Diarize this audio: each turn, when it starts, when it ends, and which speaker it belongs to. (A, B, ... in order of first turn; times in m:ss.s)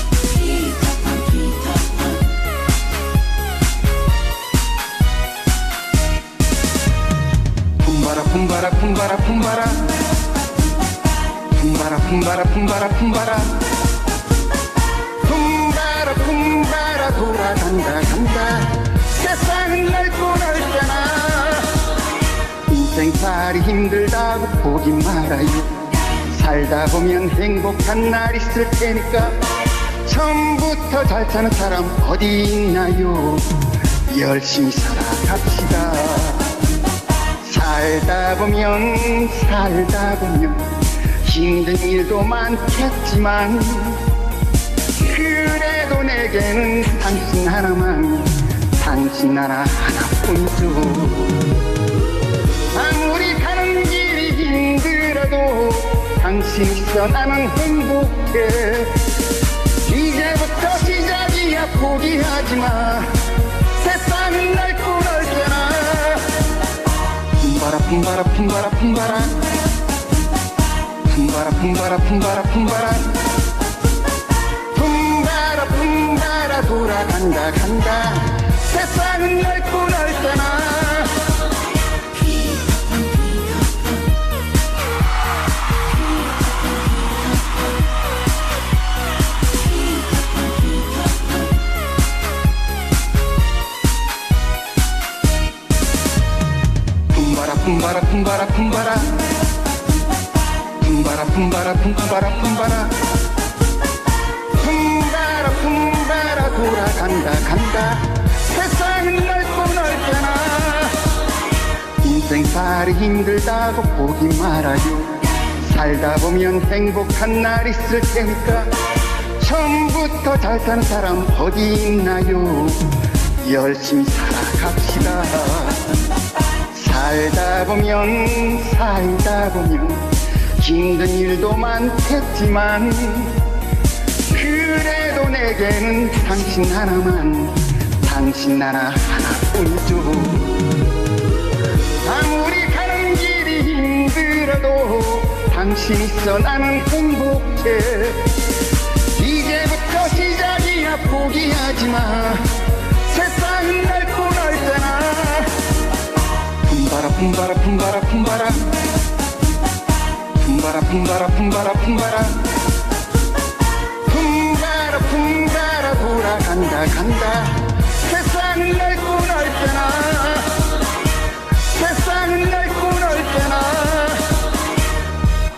0:07.8-0:10.0 A
0:11.5-0:13.7 A
0:15.2-0:21.9 A
0:22.7-0:29.4 A
0:30.0-0:36.5 A
0:37.4-0:44.1 A
0:44.9-0:51.5 A
0:52.7-0:59.2 A
0:59.8-1:06.5 A
1:07.3-1:09.5 A
1:11.0-1:13.3 A
1:14.7-1:21.4 A
1:37.1-1:39.3 A
1:40.8-1:43.1 A
1:44.5-1:51.1 A
1:52.0-1:58.8 A
1:59.4-2:05.9 A
2:06.7-2:13.5 A
2:14.3-2:20.6 A
2:22.0-2:28.6 A
2:29.1-2:35.7 A
2:36.6-2:38.9 A
2:40.4-2:42.5 A
2:44.0-2:50.7 A
2:51.6-2:54.5 A